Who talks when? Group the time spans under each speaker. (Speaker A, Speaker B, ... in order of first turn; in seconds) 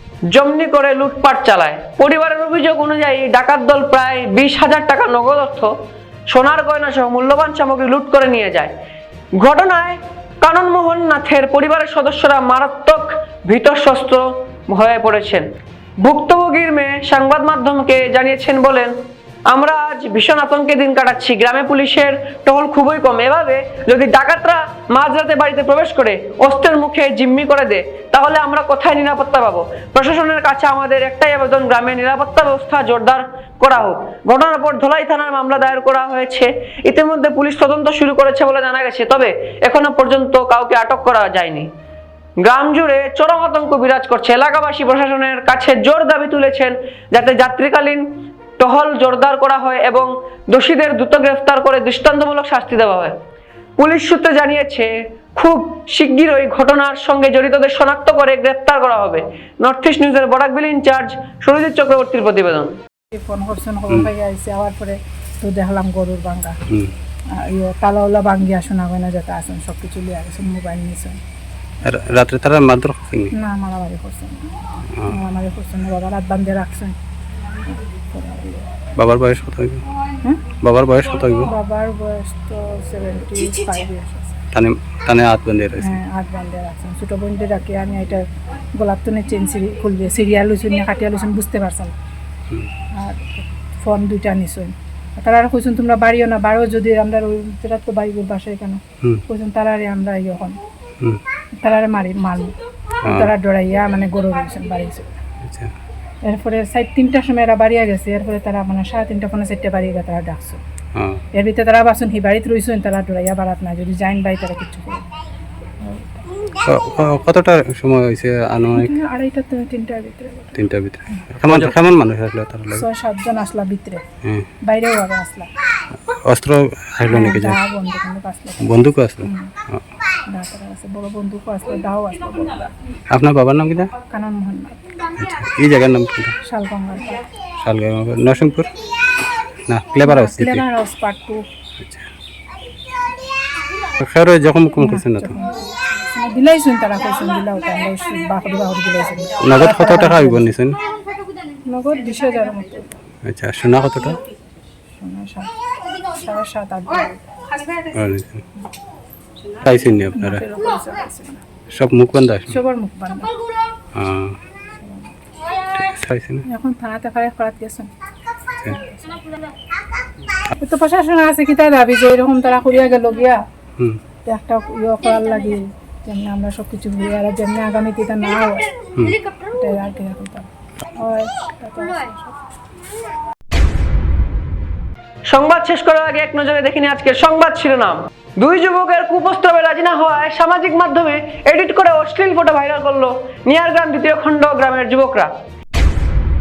Speaker A: 0.3-5.7, 6.3-8.7, 9.4-15.4, 16.0-18.9, 19.5-41.7, 42.4-48.0, 48.6-53.1, 53.8-62.7, 185.3-195.3
Speaker B: 63.1-66.5, 67.3-71.2, 73.3-74.5, 75.1-77.0, 78.1-78.7, 81.4-84.4, 85.8-88.2, 88.8-91.9, 93.8-100.6, 101.6-102.5, 103.1-105.2, 106.2-110.6, 111.3-115.0, 115.8-116.2, 118.7-120.6, 122.7-124.0, 124.6-125.5, 127.0-129.5, 130.3-132.7, 134.1-134.8, 136.4-137.2, 140.0-141.4, 144.8-150.5, 151.6-152.9, 154.9-155.5, 156.1-157.3, 160.1-161.4, 162.5-163.3, 164.8-165.1, 166.5-167.9, 168.7-169.2, 170.6-173.4, 174.2-178.7, 179.5-182.3
Speaker C: 71.8-73.3, 79.0-79.8, 80.6-81.5, 84.5-85.9, 105.4-105.7, 110.9-111.2, 116.6-118.9, 120.5-122.8, 126.3-127.6, 128.6-129.8, 133.1-133.9, 135.2-136.3, 137.6-138.7, 139.7-140.7, 144.0-145.3, 149.4-150.8, 153.2-154.2, 157.9-158.4, 159.6-160.4, 161.7-162.6, 163.9-164.3, 165.7-166.4